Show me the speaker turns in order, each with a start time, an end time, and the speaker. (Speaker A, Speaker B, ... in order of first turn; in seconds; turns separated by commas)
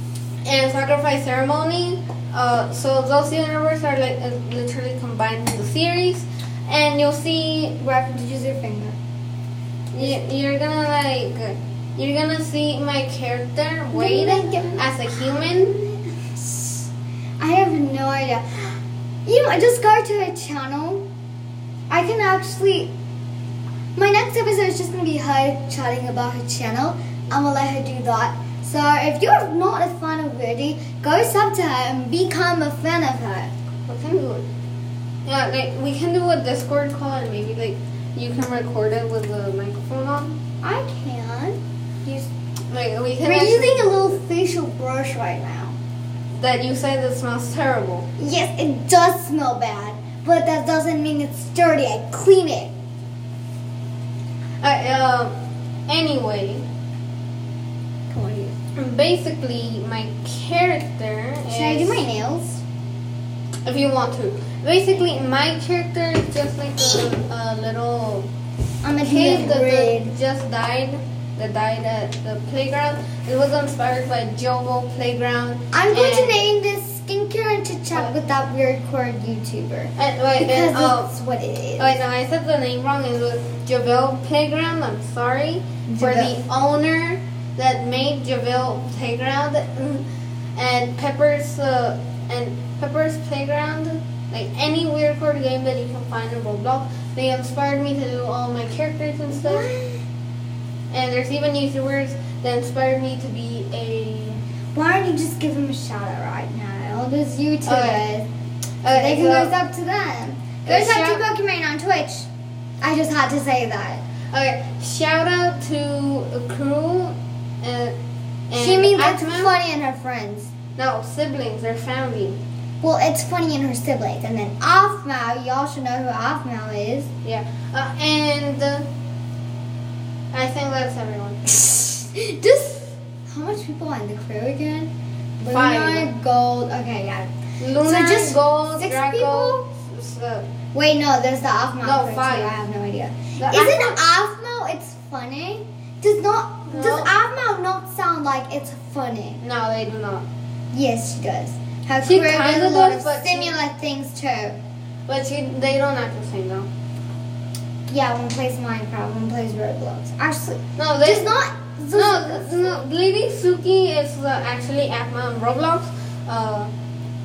Speaker A: 0.4-7.8, Speaker B: 7.8-8.9, Speaker A: 9.9-15.8, Speaker B: 13.9-14.9, Speaker B: 15.5-16.9, Speaker B: 17.4-18.6, Speaker B: 19.2-21.0, Speaker B: 21.9-22.9, Speaker B: 23.9-33.5, Speaker A: 33.9-34.5, Speaker A: 35.2-40.4, Speaker B: 40.6-42.3, Speaker A: 42.7-44.1, Speaker B: 43.2-45.8, Speaker A: 46.3-48.0, Speaker B: 48.2-52.7, Speaker A: 54.6-55.3, Speaker A: 55.9-56.6, Speaker B: 58.1-58.5, Speaker A: 58.7-62.0, Speaker B: 61.5-62.6, Speaker A: 63.6-68.3, Speaker B: 68.8-70.1, Speaker A: 69.0-76.4, Speaker B: 75.7-82.0, Speaker A: 80.0-81.1, Speaker A: 81.8-99.7, Speaker B: 85.9-86.3, Speaker B: 99.3-100.0, Speaker A: 100.9-104.4, Speaker B: 104.7-108.3, Speaker A: 107.6-108.0, Speaker A: 108.8-109.5, Speaker B: 108.9-112.3, Speaker A: 110.6-111.2, Speaker B: 112.8-114.0, Speaker A: 114.3-117.9, Speaker A: 118.5-119.5, Speaker B: 118.5-120.5, Speaker A: 120.8-122.4, Speaker B: 122.8-127.1, Speaker A: 127.2-128.8, Speaker A: 130.3-131.4, Speaker B: 131.6-137.3, Speaker A: 135.5-136.1, Speaker A: 137.6-140.4, Speaker B: 137.8-139.6, Speaker B: 140.7-149.4, Speaker A: 141.8-142.5, Speaker A: 143.4-144.0, Speaker A: 146.7-147.1, Speaker A: 149.4-150.2, Speaker B: 150.7-154.6, Speaker A: 152.0-153.5, Speaker A: 155.1-156.7, Speaker B: 157.9-162.8, Speaker A: 160.8-161.3, Speaker A: 161.9-166.7